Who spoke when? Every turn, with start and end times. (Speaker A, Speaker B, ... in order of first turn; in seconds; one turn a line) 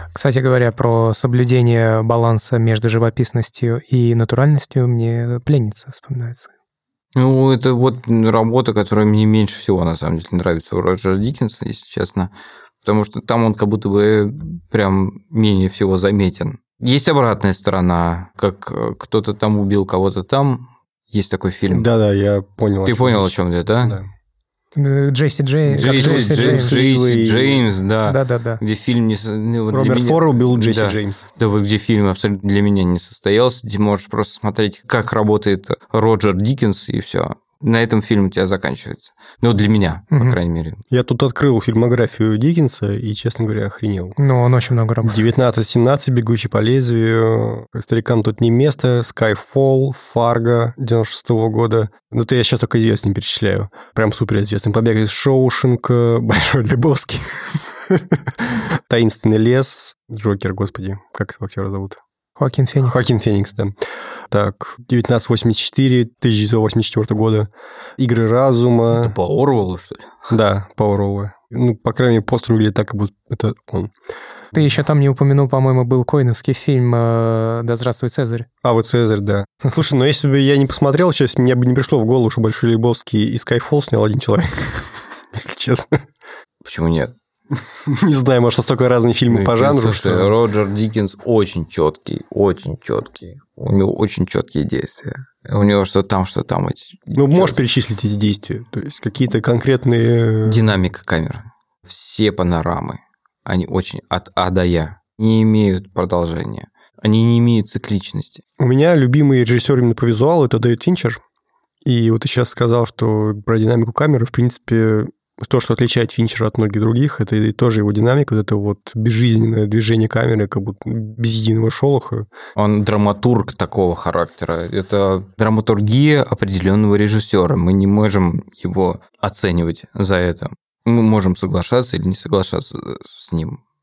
Speaker A: 0.1-6.5
Speaker B: 7.2-12.3
Speaker B: 12.8-21.9
Speaker C: 21.7-24.1
Speaker B: 22.9-24.0
Speaker A: 24.8-26.9
Speaker B: 25.7-40.8
Speaker C: 25.8-27.7
Speaker A: 28.1-28.6
Speaker C: 29.7-31.2
Speaker A: 40.1-40.4
Speaker C: 40.9-44.2
Speaker A: 44.2-45.2
Speaker C: 45.0-62.0
Speaker A: 62.4-63.0
Speaker C: 62.8-63.8
Speaker C: 64.3-69.2
Speaker B: 68.9-70.1
Speaker C: 70.3-73.9
Speaker A: 74.5-78.5
Speaker C: 78.6-86.0
Speaker B: 86.6-87.1
Speaker C: 87.9-90.3
Speaker B: 89.3-97.6
Speaker C: 97.2-100.6
Speaker B: 100.5-108.4
Speaker C: 108.6-111.2
Speaker C: 111.8-122.3
Speaker B: 122.6-133.6